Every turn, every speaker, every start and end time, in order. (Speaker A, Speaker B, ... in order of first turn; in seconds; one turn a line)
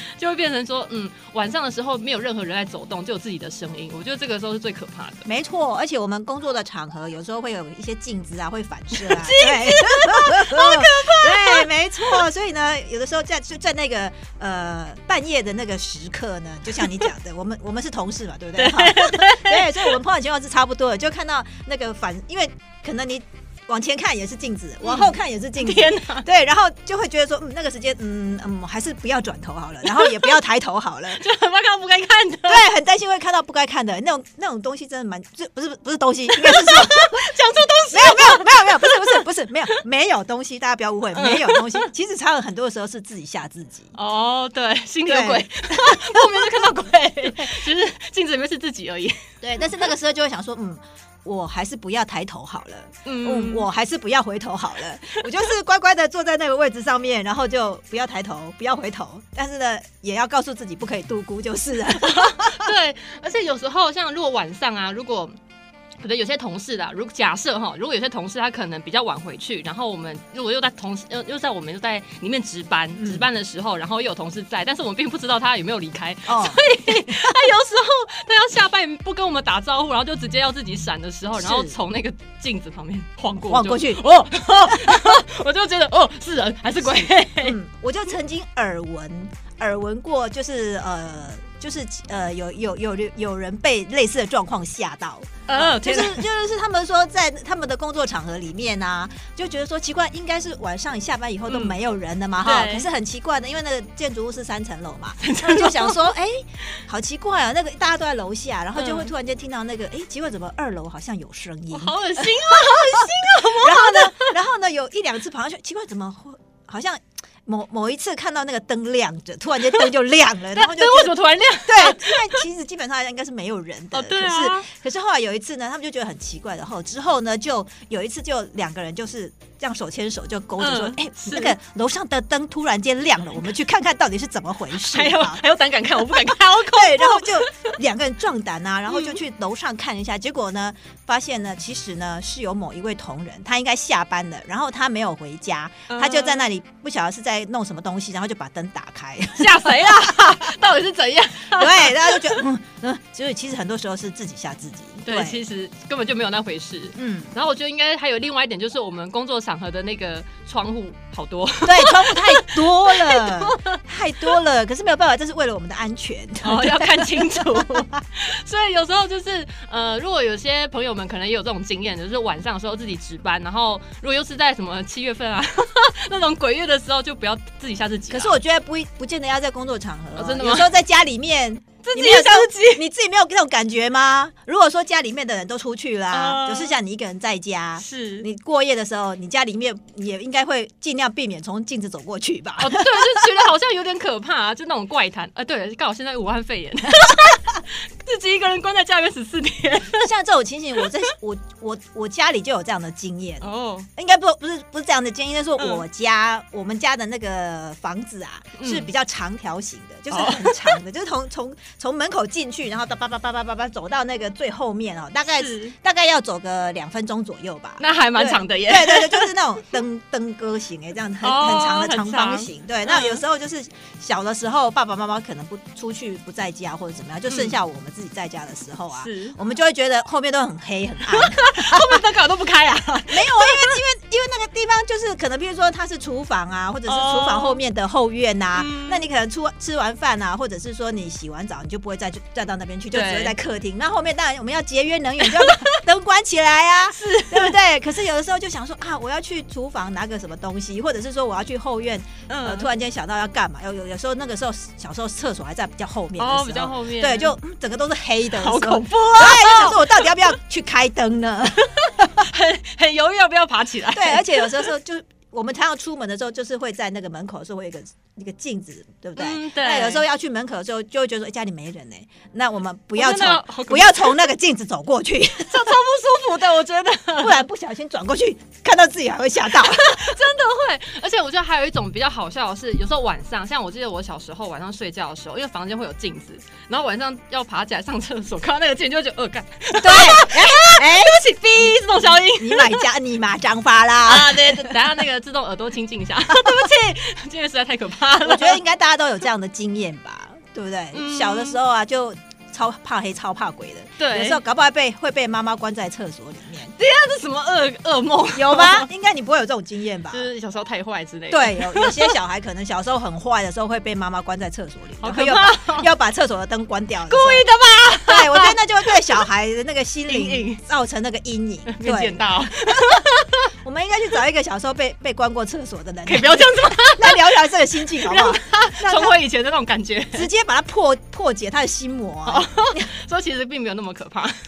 Speaker A: 0.1-5.2
Speaker B: 5.2-31.2
Speaker A: 8.9-12.2
Speaker A: 18.6-20.0
Speaker A: 24.8-26.2
Speaker A: 29.9-30.3
Speaker A: 31.2-32.7
Speaker B: 32.5-37.2
Speaker A: 36.3-39.2
Speaker B: 37.9-43.9
Speaker A: 41.1-41.9
Speaker A: 43.9-49.2
Speaker B: 45.0-46.7
Speaker B: 49.4-62.7
Speaker A: 53.0-53.7
Speaker A: 62.0-65.3
Speaker A: 66.0-87.5
Speaker B: 73.0-73.3
Speaker B: 76.3-77.3
Speaker B: 81.3-81.7
Speaker B: 83.5-85.2
Speaker B: 86.8-135.4
Speaker A: 95.5-96.3
Speaker A: 101.5-101.8
Speaker A: 102.4-102.9
Speaker A: 105.2-106.0
Speaker A: 108.8-109.1
Speaker A: 111.7-114.3
Speaker A: 120.5-122.4
Speaker A: 123.9-124.7
Speaker A: 130.6-131.6
Speaker A: 134.7-137.7
Speaker B: 136.1-150.5
Speaker A: 138.9-139.2
Speaker A: 145.9-146.5
Speaker A: 149.4-152.4
Speaker B: 151.5-155.4
Speaker A: 155.1-164.4
Speaker B: 157.0-157.3
Speaker B: 161.6-168.0
Speaker A: 166.4-178.4
Speaker B: 178.1-193.3
Speaker A: 180.2-180.7
Speaker A: 181.8-182.8
Speaker A: 186.1-186.8
Speaker A: 187.8-188.3
Speaker A: 192.6-200.1
Speaker B: 200.0-232.0
Speaker A: 203.4-203.9
Speaker A: 205.6-205.8
Speaker A: 208.6-208.9
Speaker A: 210.1-210.8
Speaker A: 215.4-215.7
Speaker A: 217.8-219.3
Speaker A: 221.2-223.2
Speaker A: 227.3-227.6
Speaker A: 229.0-229.4
Speaker A: 231.1-233.8
Speaker B: 233.1-262.2
Speaker A: 236.8-237.6
Speaker A: 238.5-239.0
Speaker A: 242.9-243.3
Speaker A: 245.2-245.6
Speaker A: 246.9-247.6
Speaker A: 252.3-252.7
Speaker A: 256.2-257.3
Speaker A: 258.4-260.2
Speaker A: 262.1-264.7
Speaker B: 263.9-275.7
Speaker A: 269.2-270.0
Speaker A: 272.9-274.3
Speaker A: 275.4-277.4
Speaker B: 277.2-280.1
Speaker A: 279.5-292.8
Speaker B: 289.8-295.0
Speaker A: 294.0-298.6
Speaker B: 296.3-296.7
Speaker B: 298.2-306.7
Speaker A: 300.9-301.6
Speaker A: 304.0-304.4
Speaker A: 306.8-308.9
Speaker B: 308.3-310.2
Speaker A: 310.1-312.1
Speaker B: 311.3-317.5
Speaker A: 315.0-315.9
Speaker A: 317.1-318.6
Speaker B: 318.0-323.1
Speaker A: 320.1-320.6
Speaker A: 321.7-323.4
Speaker B: 323.6-329.2
Speaker A: 326.1-330.3
Speaker B: 330.1-332.9
Speaker A: 332.2-334.3